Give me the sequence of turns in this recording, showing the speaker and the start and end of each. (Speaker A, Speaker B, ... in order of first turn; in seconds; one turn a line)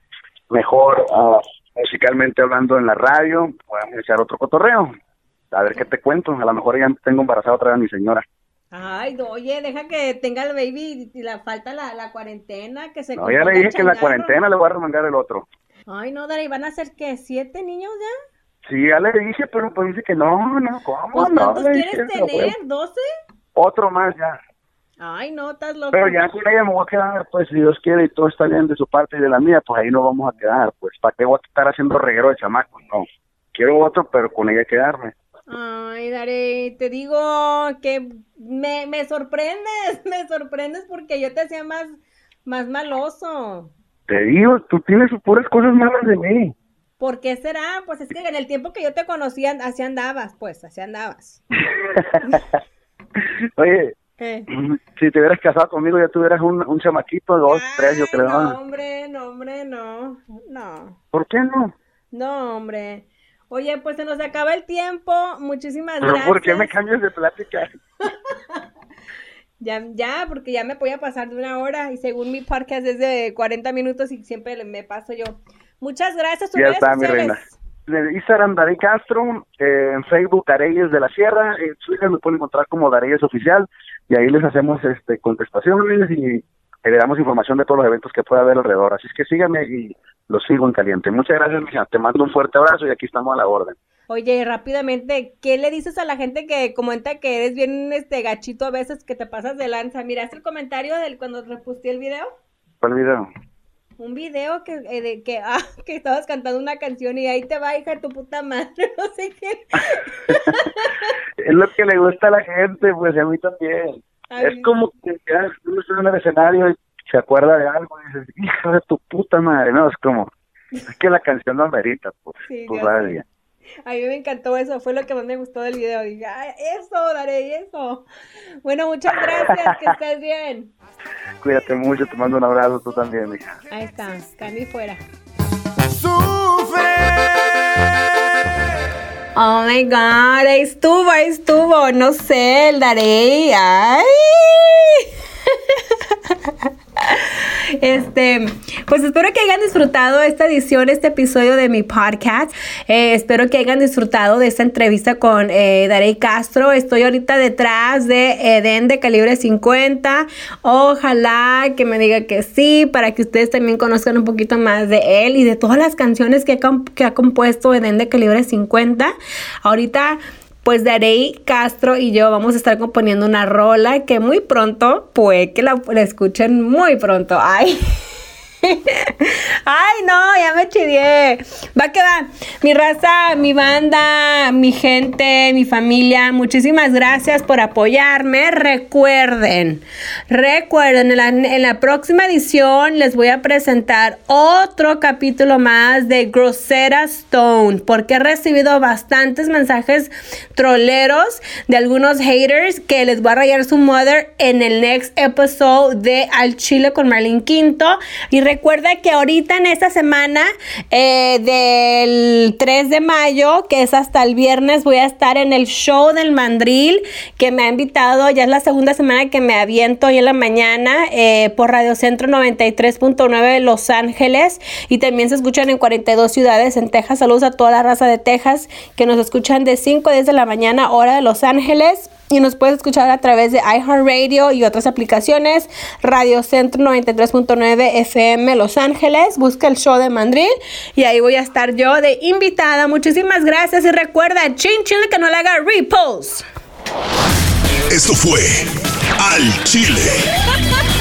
Speaker A: 0.5-4.9
Speaker A: 5.5-8.2
Speaker B: 8.7-14.4
Speaker A: 13.2-15.5
Speaker B: 15.9-18.1
Speaker A: 18.6-22.5
Speaker B: 21.1-23.1
Speaker A: 23.5-24.4
Speaker B: 25.0-26.2
Speaker A: 25.9-35.1
Speaker B: 35.5-43.7
Speaker A: 44.1-46.5
Speaker B: 47.0-51.4
Speaker A: 51.7-52.4
Speaker A: 53.2-54.0
Speaker B: 54.2-54.5
Speaker A: 54.5-58.6
Speaker B: 57.5-61.0
Speaker A: 61.1-61.7
Speaker B: 62.1-66.7
Speaker A: 66.0-67.8
Speaker B: 68.0-68.6
Speaker B: 69.6-77.5
Speaker A: 76.5-93.8
Speaker B: 94.1-102.3
Speaker A: 102.8-103.3
Speaker B: 104.0-111.1
Speaker A: 110.3-110.5
Speaker A: 111.4-120.3
Speaker B: 114.3-114.7
Speaker A: 120.9-123.2
Speaker B: 122.5-123.2
Speaker B: 123.8-128.1
Speaker B: 128.6-130.7
Speaker A: 129.4-129.9
Speaker A: 131.4-133.6
Speaker B: 133.7-135.0
Speaker B: 139.3-169.1
Speaker B: 169.6-177.8
Speaker B: 178.6-246.4
Speaker C: 247.9-250.3